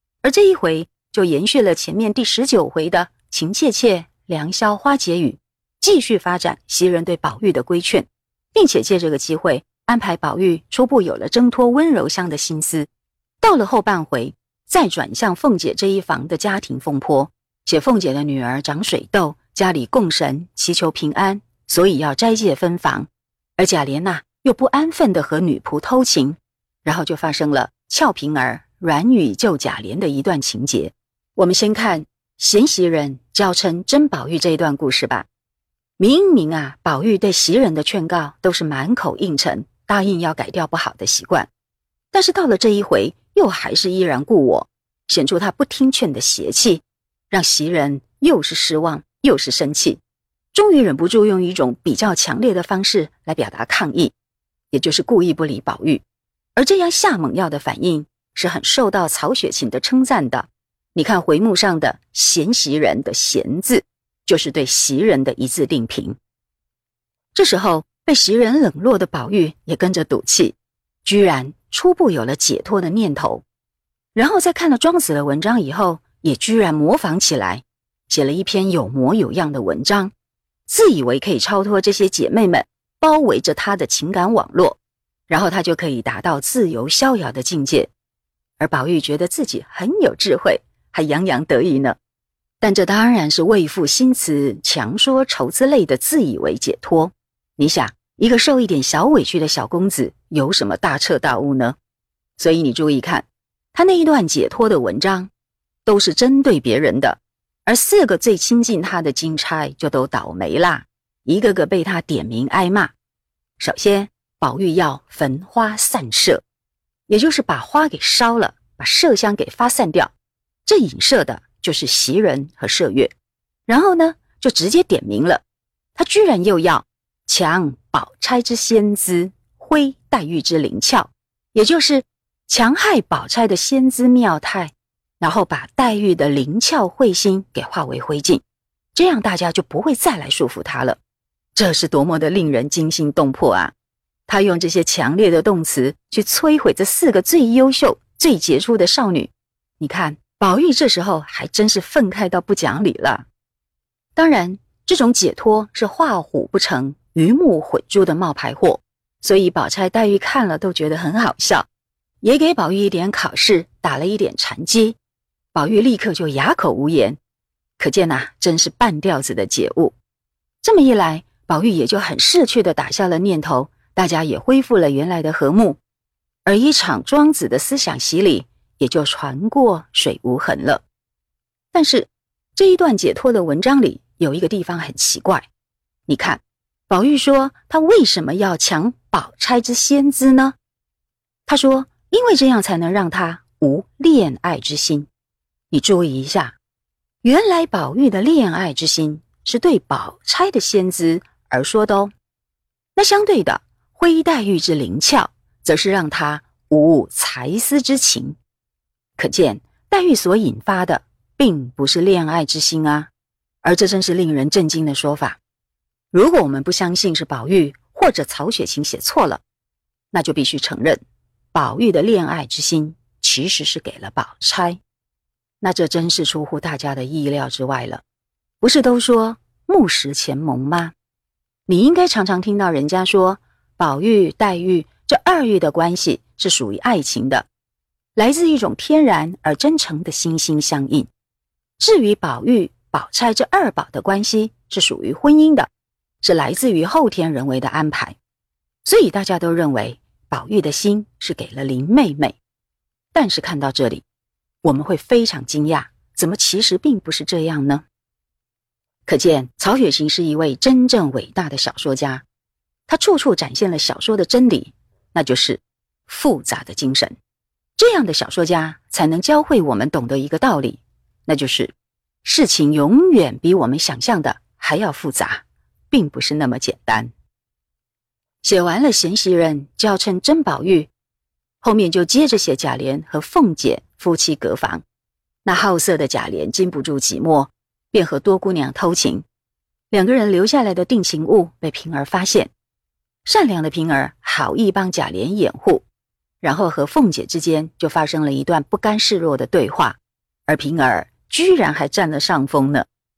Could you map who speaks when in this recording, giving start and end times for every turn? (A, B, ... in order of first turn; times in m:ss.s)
0:00.2-0:12.9 A
0:13.4-0:35.3 A
0:36.0-0:41.5 A
0:42.1-0:50.0 A
0:50.5-0:54.1 A
0:54.7-0:56.0 A
0:56.6-1:06.2 A
1:07.3-1:13.4 A
1:14.1-1:20.1 A
1:20.7-1:24.8 A
1:25.3-1:27.9 A
1:28.6-1:32.0 A
1:32.6-1:41.8 A
1:42.4-1:45.3 A
1:45.8-1:52.9 A
1:53.6-1:56.4 A
1:57.1-2:00.1 A
2:00.6-2:03.1 A
2:03.7-2:05.4 A
2:06.0-2:18.4 A
2:18.9-2:21.0 A
2:21.6-2:23.7 A
2:24.3-2:33.3 A
2:34.2-2:41.7 A
2:42.2-2:45.0 A
2:45.5-2:47.2 A
2:47.8-2:50.0 A
2:50.6-2:55.8 A
2:56.4-3:00.8 A
3:01.7-3:05.5 A
3:06.1-3:10.6 A
3:11.5-3:15.1 A
3:15.7-3:16.6 A
3:17.2-3:22.1 A
3:23.0-3:28.4 A
3:29.2-3:33.1 A
3:33.6-3:35.4 A
3:36.1-3:39.4 A
3:40.1-3:41.0 A
3:41.5-3:44.8 A
3:45.6-3:48.0 A
3:48.6-3:50.9 A
3:51.7-3:57.5 A
3:58.2-4:01.1 A
4:01.8-4:05.7 A
4:06.2-4:08.2 A
4:08.8-4:12.4 A
4:13.1-4:14.0 A
4:14.6-4:17.8 A
4:19.1-4:22.2 A
4:22.9-4:27.2 A
4:27.8-4:31.7 A
4:32.2-4:37.1 A
4:38.4-4:40.9 A
4:41.6-4:44.8 A
4:45.4-4:49.2 A
4:49.9-4:52.5 A
4:53.2-4:55.8 A
4:56.4-5:02.9 A